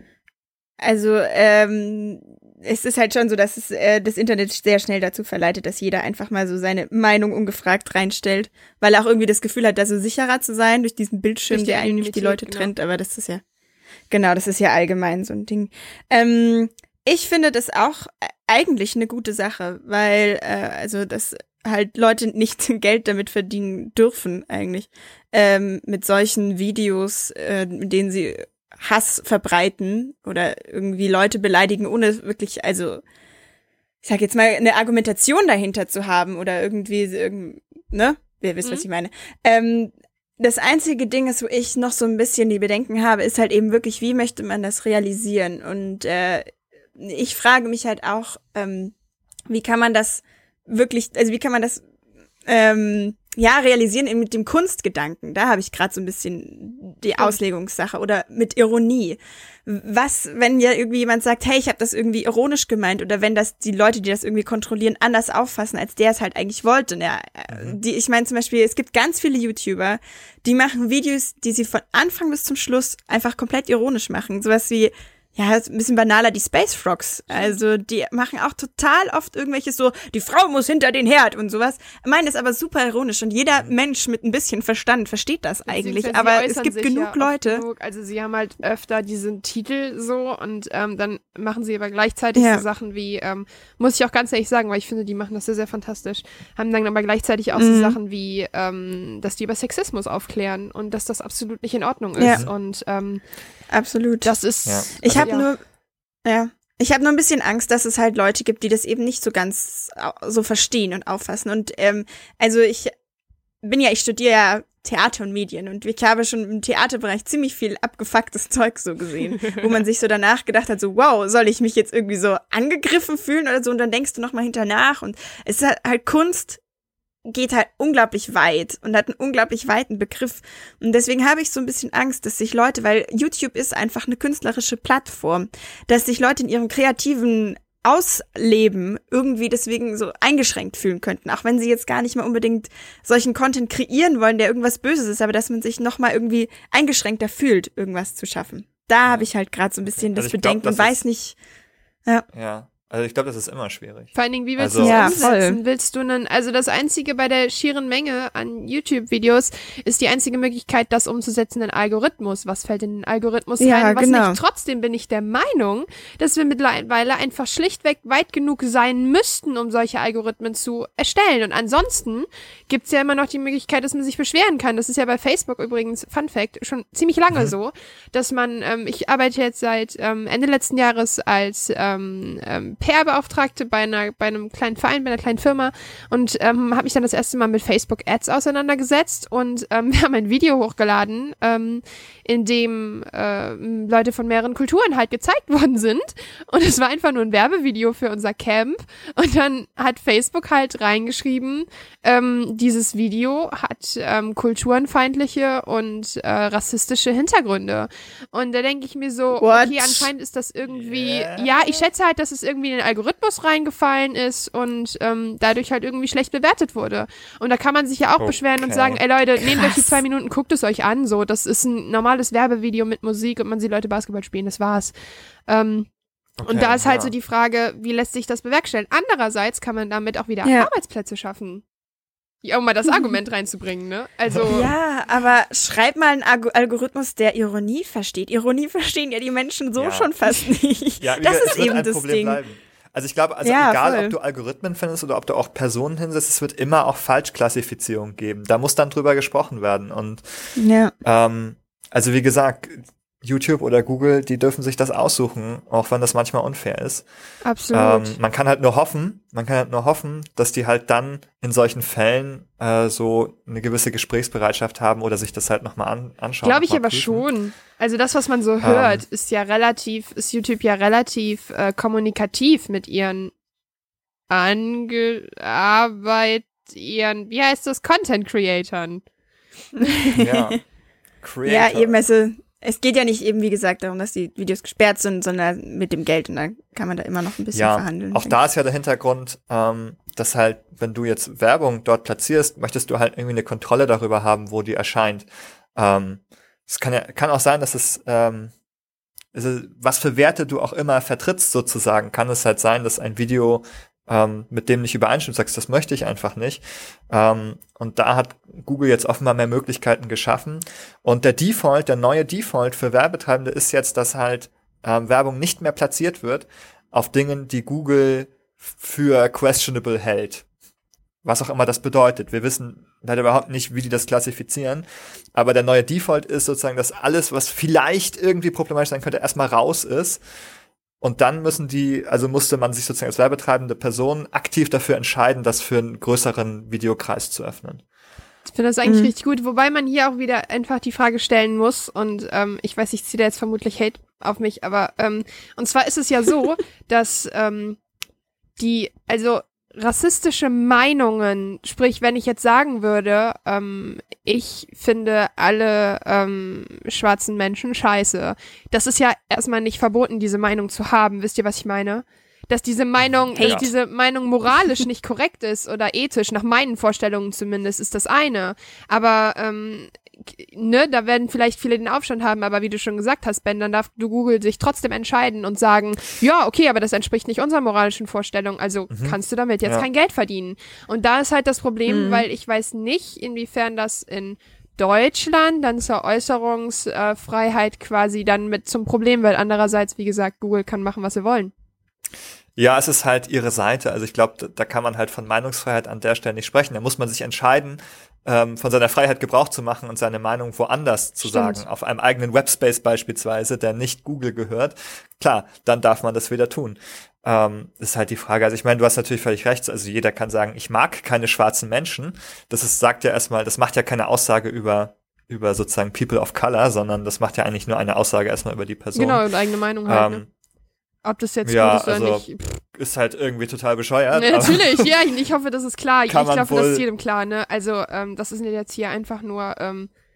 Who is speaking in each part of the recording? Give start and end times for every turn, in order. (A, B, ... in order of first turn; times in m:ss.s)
0:00.8-0:13.4 A
0:11.5-0:12.7 B
0:14.1-0:33.0 A
0:34.0-0:48.9 A
0:49.5-0:51.8 A
0:52.4-1:27.6 A
1:07.5-1:07.8 C
1:25.7-1:43.2 B
1:32.4-1:32.6 A
1:37.6-1:38.0 A
1:42.2-1:42.4 A
1:43.7-1:44.3 A
1:44.2-1:45.5 B
1:44.7-1:45.3 C
1:45.0-1:45.6 A
1:46.2-1:52.9 A
1:53.6-2:06.6 A
2:07.2-2:31.4 A
2:29.9-2:31.0 C
2:32.3-2:35.1 C
2:34.2-3:44.9 B
2:34.8-2:35.6 A
2:43.6-2:44.4 A
3:29.4-3:30.1 A
3:30.7-3:31.9 C
3:38.2-3:39.0 C
3:39.4-3:40.0 A
3:45.5-3:45.9 B
3:46.4-3:47.1 C
3:46.5-3:51.6 B
3:50.4-3:50.7 A
3:52.4-3:54.7 B
3:54.5-4:02.4 A
3:59.8-4:00.1 C
4:01.0-4:17.0 C
4:03.4-4:04.2 A
4:10.6-4:10.9 A
4:17.4-4:18.2 B
4:17.7-4:27.3 C
4:26.4-4:33.3 B
4:28.6-4:29.0 C
4:34.3-4:39.0 B
4:39.8-4:40.6 A
4:40.1-4:40.6 C
4:41.2-4:42.0 C
4:41.5-4:48.4 A
4:47.5-4:58.5 C
4:59.3-5:20.4 C
5:21.2-5:30.2 C
5:31.0-5:37.8 C
5:38.5-5:47.8 B
5:38.9-5:39.1 A
5:48.6-6:31.5 B
6:03.0-6:03.7 C
6:03.4-6:03.7 A
6:18.9-6:19.9 C
6:21.9-6:22.3 A
6:32.6-6:59.2 C
6:41.2-6:41.6 B
6:59.0-7:00.2 B
6:59.9-7:00.3 C
7:01.0-7:02.6 B
7:01.4-7:04.9 C
7:04.1-7:09.9 B
7:06.1-7:06.9 C